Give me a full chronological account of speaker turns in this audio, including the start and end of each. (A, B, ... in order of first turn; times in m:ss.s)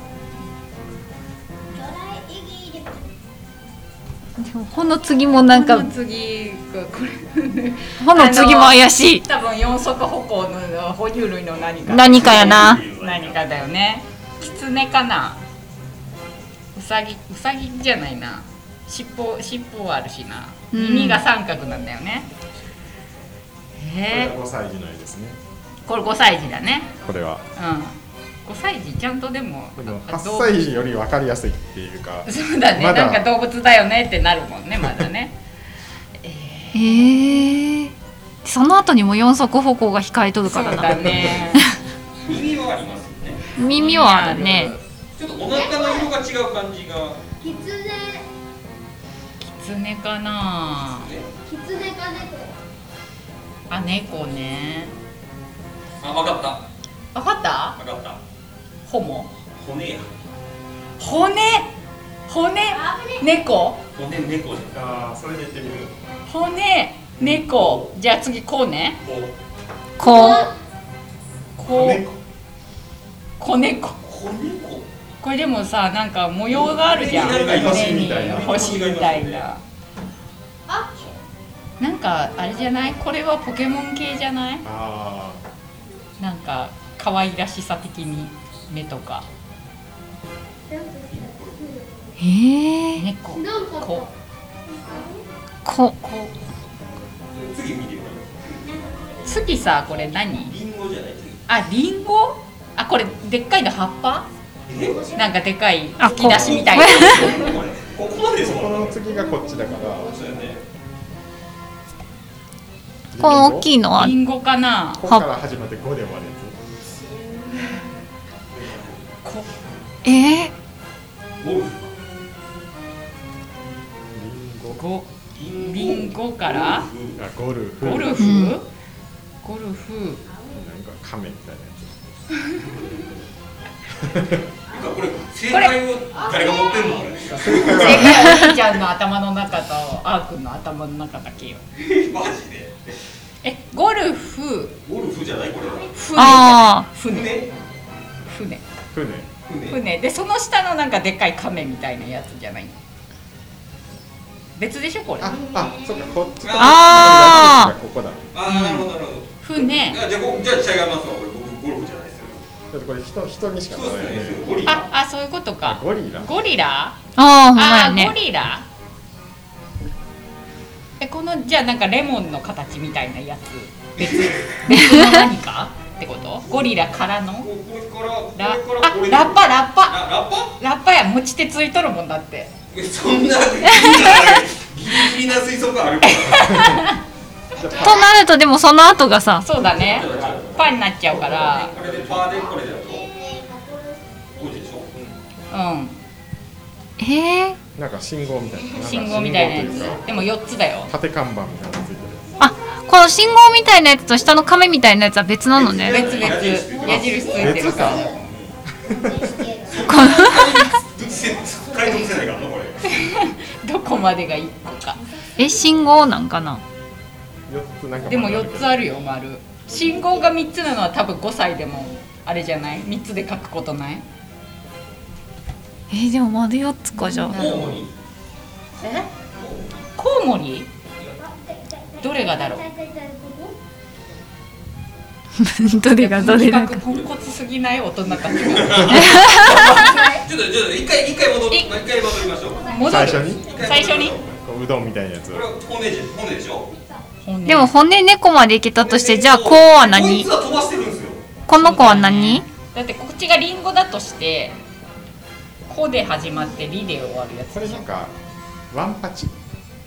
0:01.8-0:03.0 A
0:04.4-0:05.9 B
0:05.4-0:15.4 C
0:08.0-0:09.2 B
0:11.9-0:12.9 B
0:12.0-0:13.5 D
0:16.8-0:22.3 C
0:20.7-0:21.2 B
0:23.8-0:24.3 C
0:24.1-0:25.4 E
0:25.9-0:26.9 C
0:27.0-0:27.4 E
0:27.6-0:30.7 C
0:29.8-0:33.2 E
0:32.3-0:35.4 C
0:36.2-0:37.2 C
0:36.7-0:41.8 B
0:40.4-0:41.6 C
0:42.2-0:43.5 D
0:43.6-0:44.8 B
0:43.7-0:44.8 C
0:45.2-0:47.2 D
0:45.5-0:46.1 A
0:47.4-0:48.2 A
0:49.4-0:51.1 C
0:51.0-0:51.3 D
0:51.5-0:52.5 A
0:53.7-0:54.9 C
0:56.0-0:56.7 D
0:57.1-0:57.8 C
0:57.8-0:58.2 D
0:58.9-0:59.3 C
0:59.5-1:00.2 D
1:01.0-1:01.7 C
1:02.3-1:03.8 C
1:02.7-1:03.2 A
1:04.0-1:04.8 D
1:04.7-1:05.9 E
1:06.3-1:09.0 C
1:07.2-1:07.9 D
1:09.0-1:09.3 D
1:10.0-1:10.5 B
1:10.0-1:10.5 A
1:11.6-1:12.0 C
1:11.6-1:12.2 E
1:13.4-1:14.0 C
1:14.0-1:14.9 D
1:15.2-1:19.6 C
1:16.5-1:19.5 D
1:17.1-1:18.6 E
1:21.8-1:24.6 C
1:24.6-1:25.4 E
1:26.2-1:29.3 C
1:30.8-1:31.0 A
1:31.1-1:31.7 D
1:32.2-1:33.0 B
1:33.0-1:34.1 C
1:34.8-1:35.2 A
1:35.6-1:36.0 B
1:36.0-1:36.4 C
1:37.3-1:38.5 D
1:39.0-1:39.3 A
1:39.2-1:40.5 C
1:40.3-1:41.4 D
1:41.5-1:44.3 C
1:44.7-1:45.1 D
1:45.2-1:47.5 C
1:46.0-1:47.3 B
1:46.2-1:49.0 D
1:48.4-1:50.2 E
1:50.0-1:50.6 D
1:53.1-1:53.7 E
1:53.2-1:54.2 B
1:53.9-1:55.0 C
1:55.0-1:56.6 E
1:58.5-1:59.1 D
2:00.0-2:00.5 B
2:01.4-2:01.9 D
2:04.1-2:04.8 E
2:04.7-2:06.9 C
2:05.4-2:07.2 D
2:07.2-2:08.2 E
2:07.8-2:08.7 C
2:08.2-2:08.6 B
2:09.4-2:10.2 C
2:10.4-2:12.0 E
2:14.0-2:14.4 E
2:14.7-2:18.1 D
2:15.5-2:15.8 C
2:17.3-2:21.6 C
2:17.3-2:18.2 E
2:18.2-2:18.6 B
2:21.8-2:23.0 D
2:23.4-2:24.8 C
2:24.8-2:26.2 D
2:25.9-2:27.4 C
2:26.2-2:26.9 B
2:27.1-2:27.5 D
2:28.3-2:28.6 C
2:28.9-2:29.3 E
2:29.5-2:29.8 D
2:29.7-2:32.8 C
2:34.6-2:35.4 C
2:35.2-2:38.3 E
2:35.4-2:36.2 A
2:36.4-2:37.5 D
2:36.6-2:37.7 B
2:38.3-2:42.4 D
2:38.5-2:38.8 C
2:39.4-2:40.0 C
2:42.7-2:44.6 E
2:43.7-2:44.9 D
2:44.7-2:47.0 C
2:45.6-2:46.4 E
2:47.2-2:48.2 B
2:47.6-2:48.6 C
2:51.0-2:57.5 C
2:54.0-2:54.6 D
2:54.7-2:55.1 B
2:57.4-3:00.6 D
2:58.4-3:00.0 C
3:00.6-3:02.5 C
3:02.7-3:06.8 D
3:06.1-3:07.0 C
3:06.5-3:06.8 E
3:07.6-3:08.1 E
3:07.8-3:09.5 B
3:09.4-3:11.8 C
3:09.6-3:13.1 D
3:10.1-3:10.6 E
3:11.8-3:12.3 E
3:12.7-3:14.5 A
3:14.3-3:14.9 D
3:15.5-3:16.0 C
3:17.0-3:17.6 B
3:17.8-3:20.2 E
3:18.8-3:20.9 C
3:20.9-3:22.3 E
3:22.4-3:26.1 B
3:25.5-3:28.6 D
3:25.9-3:28.2 C
3:26.8-3:28.1 E
3:28.9-3:29.3 E
3:29.7-3:33.0 D
3:29.8-3:30.7 B
3:32.9-3:35.0 C
3:35.4-3:36.6 B
3:37.5-3:38.9 E
3:38.0-3:44.0 C
3:45.9-3:47.4 B
3:46.9-3:47.8 C
3:47.3-3:47.9 D
3:48.8-3:49.1 C
3:49.3-3:49.8 D
3:50.0-3:50.7 C
3:52.0-3:52.7 C
3:52.8-3:53.5 A
3:55.4-3:56.8 B
3:55.9-4:00.3 C
3:58.4-3:59.0 D
3:58.9-3:59.7 B
4:00.2-4:04.3 D
4:02.7-4:04.2 C
4:02.8-4:03.6 E
4:04.2-4:05.5 E
4:05.3-4:06.7 D
4:07.2-4:07.8 C
4:07.5-4:10.3 B
4:08.8-4:11.2 D
4:11.5-4:12.5 B
4:11.5-4:14.6 C
4:15.7-4:17.9 C
4:17.5-4:18.1 E
4:18.7-4:19.3 E